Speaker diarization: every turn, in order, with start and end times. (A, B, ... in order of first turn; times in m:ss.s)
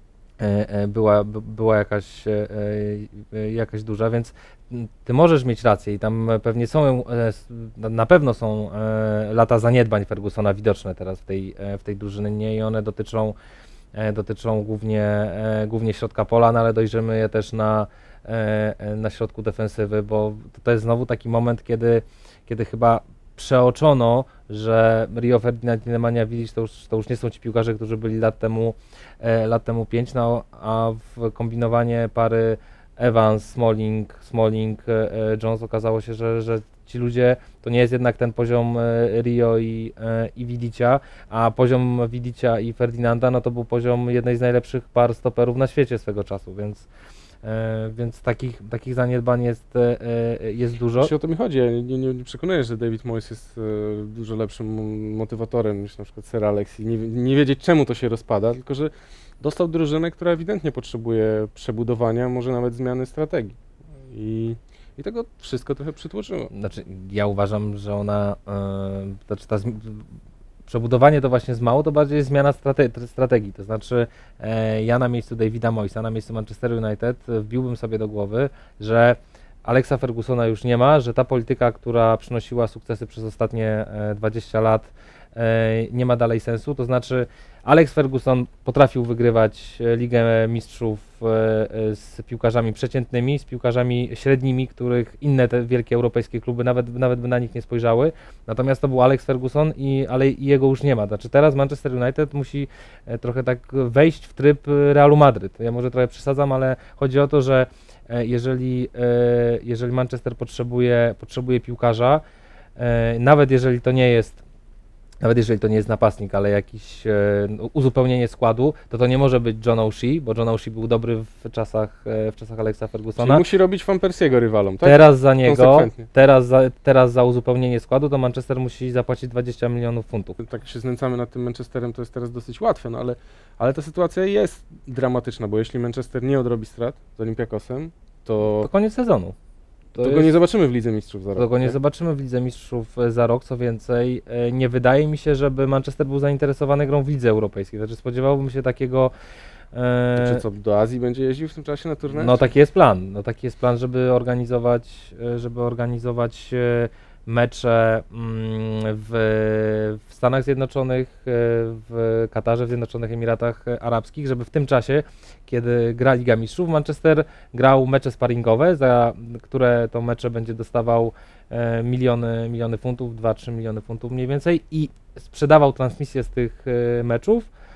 0:00.4-0:13.4 A
0:13.9-0:46.9 A
0:47.4-0:51.1 A
0:51.0-1:06.5 B
1:06.5-1:10.0 A
1:10.7-1:52.2 A
1:52.8-1:54.4 A
1:55.2-2:03.4 A
2:03.2-2:06.0 B
2:04.8-2:10.4 A
2:10.4-2:18.7 B
2:18.4-2:19.3 A
2:19.9-2:20.3 A
2:20.0-2:21.8 B
2:21.4-2:29.1 A
2:29.7-2:30.4 A
2:30.2-2:32.4 B
2:32.1-2:57.5 A